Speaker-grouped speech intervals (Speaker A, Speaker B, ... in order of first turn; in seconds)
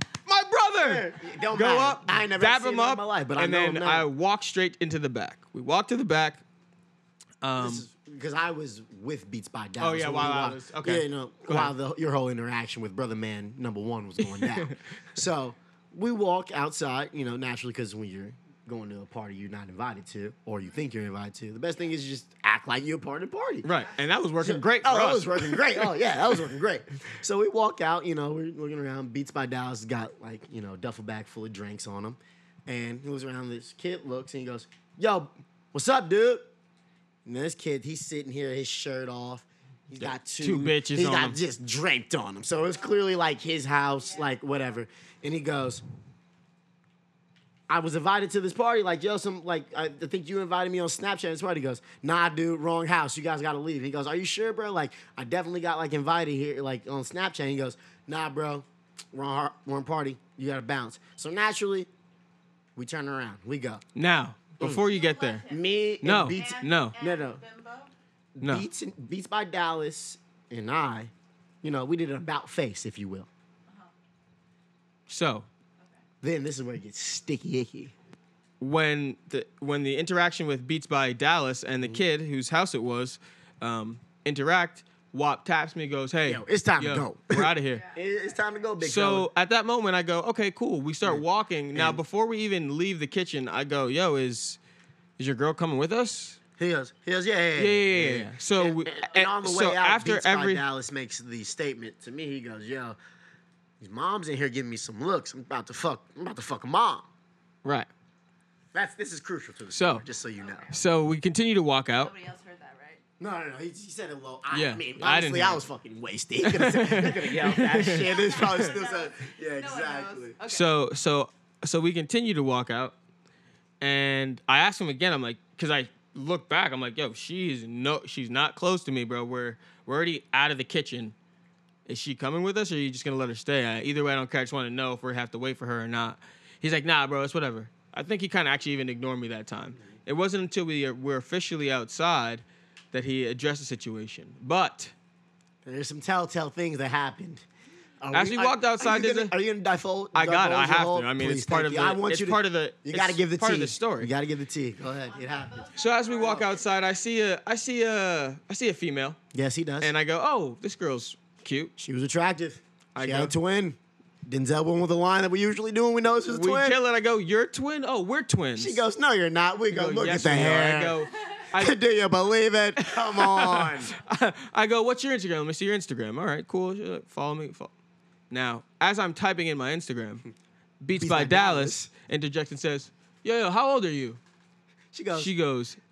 Speaker A: 0.2-6.4, 7.4-7.8, 9.8-11.7, 14.3-14.7, 23.6-26.1, 40.0-41.4, 63.9-65.4, 66.0-66.9, 68.4-68.7, 75.1-75.5, 78.6-87.8, 88.8-94.6, 95.2-96.4, 97.6-100.6, 107.6-107.9, 109.7-110.0, 110.7-112.1, 114.5-115.6, 116.4-118.4, 120.5-122.9, 123.8-131.1, 131.9-144.9, 148.1-149.3, 150.1-154.1, 155.8-159.2, 159.8-161.7, 162.9-163.3, 166.2-168.8, 169.7-171.8, 172.8-177.7, 178.3-180.2, 180.8-184.2, 185.1-185.8
Speaker B: 0.8-4.1, 7.6-23.7, 24.4-36.5, 37.2-45.8, 47.7-61.9, 62.8-63.8, 65.5-67.4, 68.3-71.1, 71.6-73.3, 76.2-77.9, 86.2-89.3, 91.0-92.0, 96.6-103.0, 103.8-107.1, 108.7-110.7, 113.2-120.4, 145.6-147.4, 148.0-155.7, 159.3-159.9, 161.8-166.8, 168.6-171.0, 171.5-173.9, 180.9-181.9, 184.9-185.3
Speaker C: 23.6-24.0, 44.0-44.3, 64.9-67.9, 73.7-73.9, 87.7-88.7, 110.4-110.9, 112.0-113.0, 117.7-120.7, 155.0-157.1